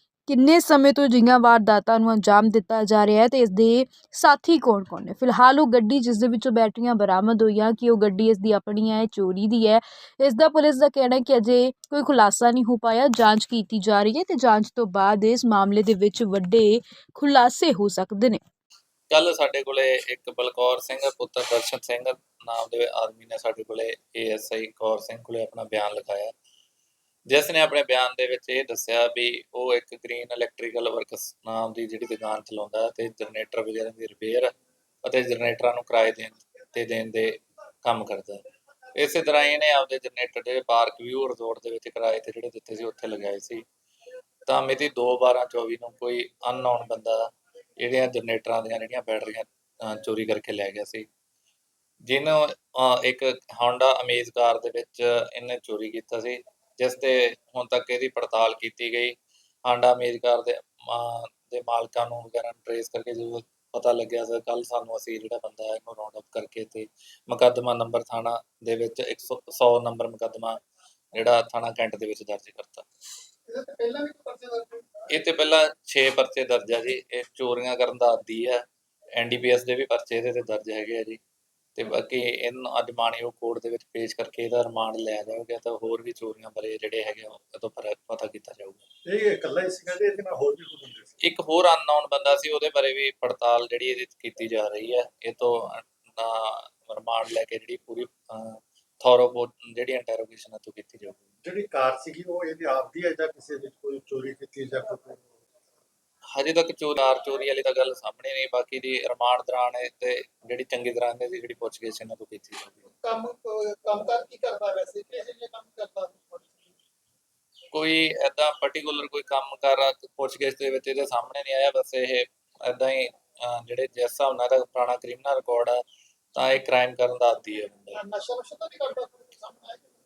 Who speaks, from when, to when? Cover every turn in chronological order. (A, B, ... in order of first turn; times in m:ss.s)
0:00.3-0:18.4 A
0:19.1-0:26.3 B
0:27.3-0:34.5 B
0:35.0-0:38.4 B
0:38.9-0:43.6 B
0:44.4-0:47.2 B
0:47.8-0:51.0 B
0:52.0-1:10.6 B
1:11.1-1:12.8 B
1:13.5-1:14.7 C
1:13.8-1:14.1 D
1:15.1-1:18.6 B
1:19.2-1:21.2 B
1:21.7-1:28.8 B
1:29.0-1:31.1 C
1:31.2-1:41.2 B
1:41.4-1:45.4 C
1:46.3-1:52.9 B
1:53.1-1:55.4 D
1:55.1-1:56.0 C
1:57.7-2:05.8 B
2:06.3-2:08.0 B
2:08.2-2:08.8 D
2:08.4-2:09.0 C